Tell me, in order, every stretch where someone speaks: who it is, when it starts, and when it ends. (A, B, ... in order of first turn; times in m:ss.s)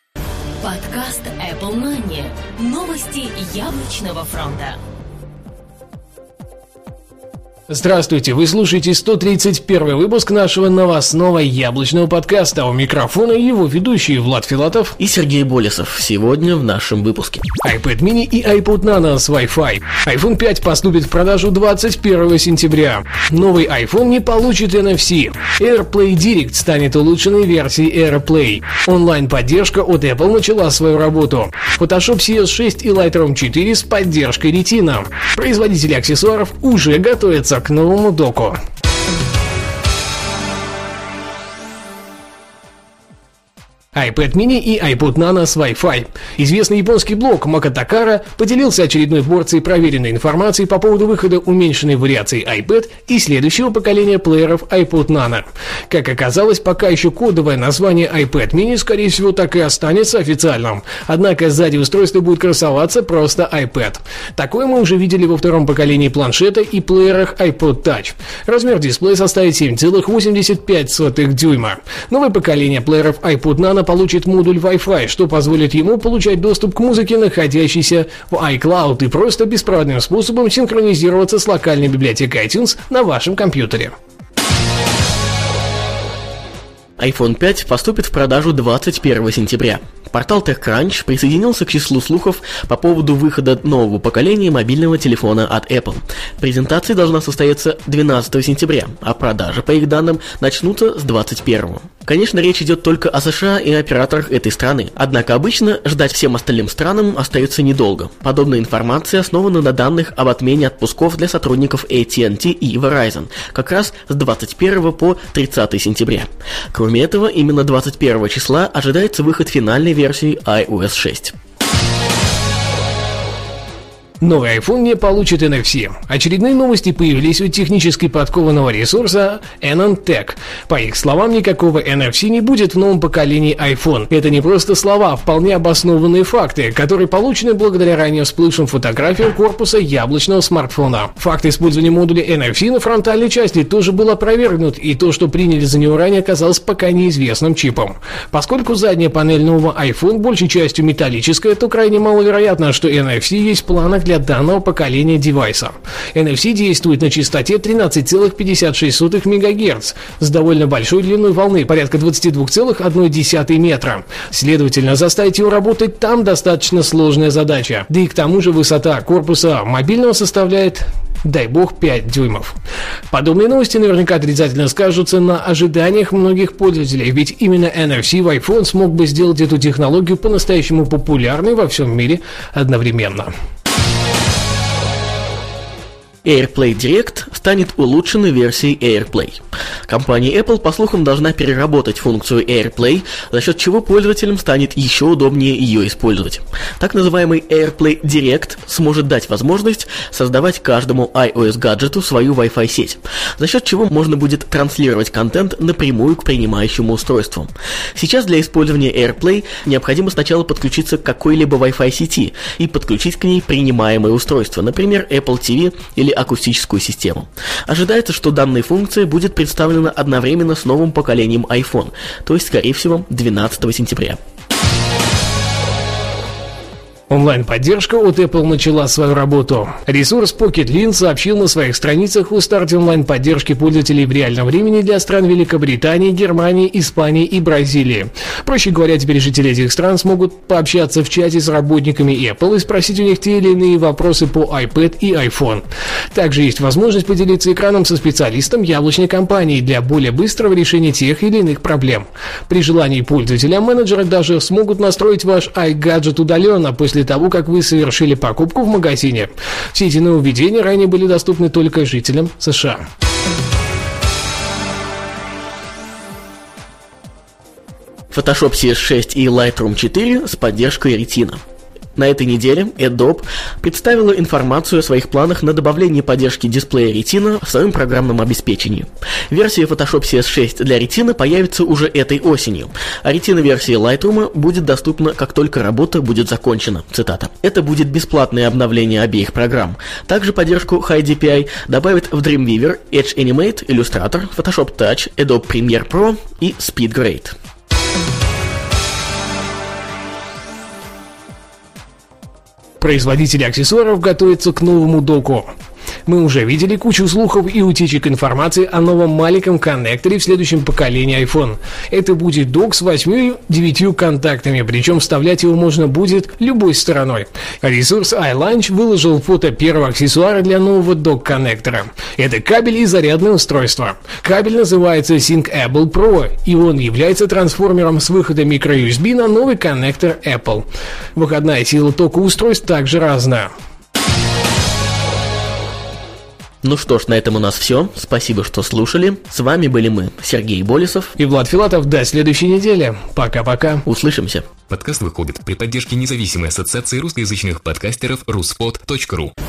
0:00.6-0:04.8 A
0:07.7-0:14.9 B
0:15.0-0:17.4 C
0:17.6-0:38.6 B
0:43.9-1:23.9 B
1:27.0-2:01.3 C
2:04.2-2:52.5 B
2:53.1-3:03.3 B
3:06.2-3:44.2 C
3:47.1-4:22.8 B
4:28.1-4:31.4 C
4:32.0-4:57.4 C
5:02.8-5:05.5 B
5:06.0-5:33.5 B
5:36.6-5:41.1 C
5:41.2-5:43.8 B
5:43.8-5:44.5 C
5:44.7-5:49.3 D